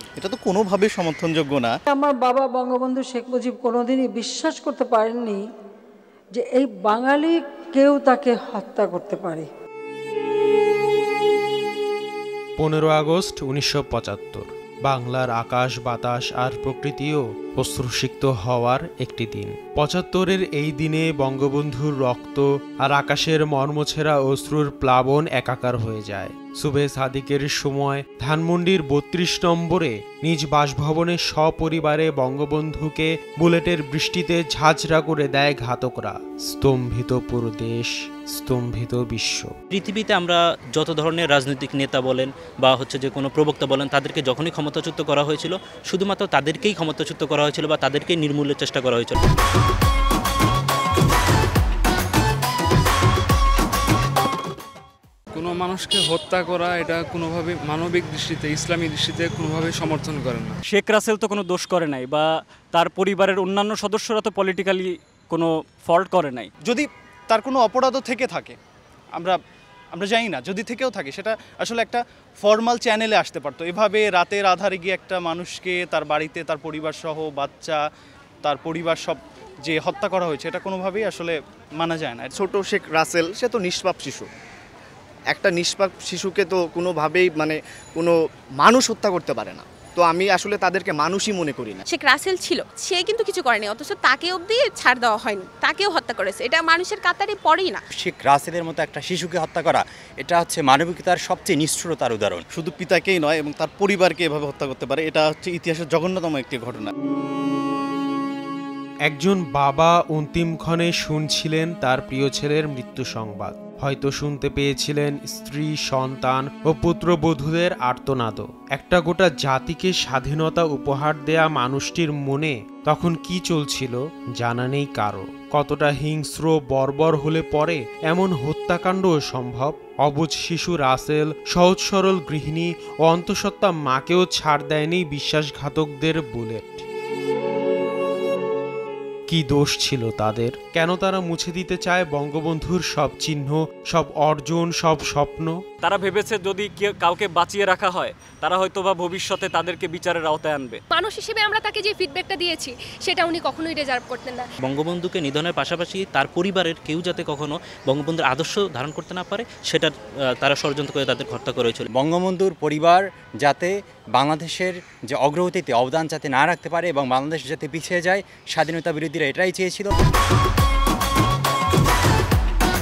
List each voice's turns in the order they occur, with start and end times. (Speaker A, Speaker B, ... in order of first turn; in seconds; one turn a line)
Speaker A: 0.2-1.7
Speaker B: 1.9-5.4
Speaker B: 6.3-9.5
Speaker C: 12.6-39.5
Speaker D: 39.7-49.2
Speaker E: 55.3-60.6
Speaker F: 60.6-66.5
Speaker A: 66.6-68.5
Speaker A: 69.9-77.8
Speaker A: 78.4-82.4
Speaker G: 82.3-84.3
Speaker G: 85.3-91.8
Speaker H: 91.8-97.8
Speaker I: 98.0-102.4
Speaker A: 102.5-106.9
Speaker C: 109.0-136.8
Speaker C: 139.3-145.5
Speaker F: 145.8-150.8
Speaker J: 150.9-154.4
Speaker D: 154.6-161.8
Speaker I: 161.9-169.9